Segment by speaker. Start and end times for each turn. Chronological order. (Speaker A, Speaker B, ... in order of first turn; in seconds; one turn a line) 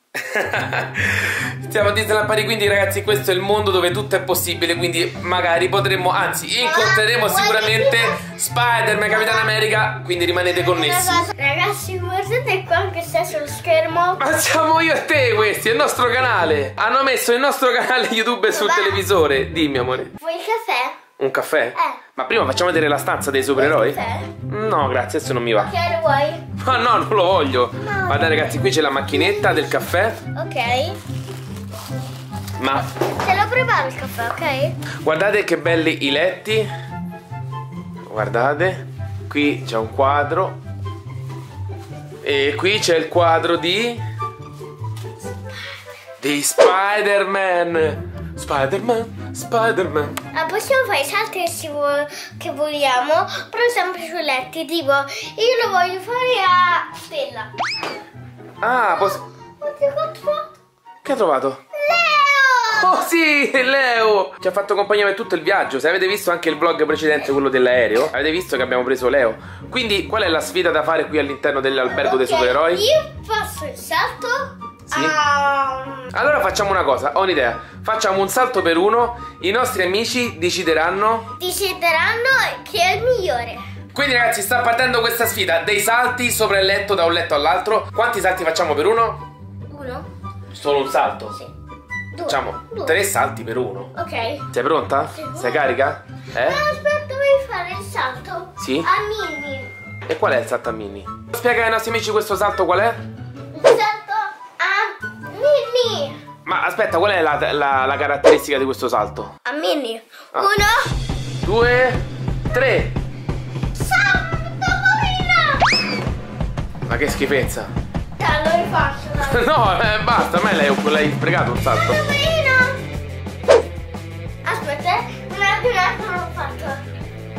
Speaker A: 0.2-11.3
Speaker B: 6.6-8.3
Speaker B: 9.1-9.5
Speaker B: 10.5-14.2
Speaker A: 14.2-20.1
Speaker B: 18.5-19.0
Speaker B: 20.2-21.0
Speaker A: 21.2-25.7
Speaker B: 23.6-24.3
Speaker B: 25.6-26.5
Speaker A: 26.6-30.2
Speaker B: 27.8-29.7
Speaker B: 30.4-31.0
Speaker A: 32.6-32.9
Speaker B: 33.2-34.8
Speaker A: 35.0-36.7
Speaker A: 38.1-40.6
Speaker A: 42.2-44.0
Speaker A: 46.2-50.2
Speaker B: 50.3-57.5
Speaker A: 58.6-59.2
Speaker B: 59.0-60.5
Speaker A: 61.0-61.6
Speaker B: 61.7-63.1
Speaker A: 62.8-72.8
Speaker B: 71.9-76.1
Speaker A: 76.1-81.3
Speaker B: 81.4-83.6
Speaker A: 83.9-89.2
Speaker B: 89.7-90.1
Speaker A: 90.5-91.3
Speaker B: 92.1-93.0
Speaker A: 92.3-93.9
Speaker B: 94.0-94.5
Speaker A: 94.5-96.6
Speaker B: 95.2-95.7
Speaker B: 96.4-99.7
Speaker A: 98.6-98.9
Speaker A: 100.1-103.0
Speaker B: 103.5-106.2
Speaker A: 106.5-109.3
Speaker B: 109.5-110.9
Speaker A: 111.4-112.0
Speaker A: 112.5-112.9
Speaker B: 113.8-115.7
Speaker A: 116.9-117.7
Speaker B: 118.2-119.5
Speaker A: 119.3-122.0
Speaker B: 121.9-122.8
Speaker B: 124.4-126.8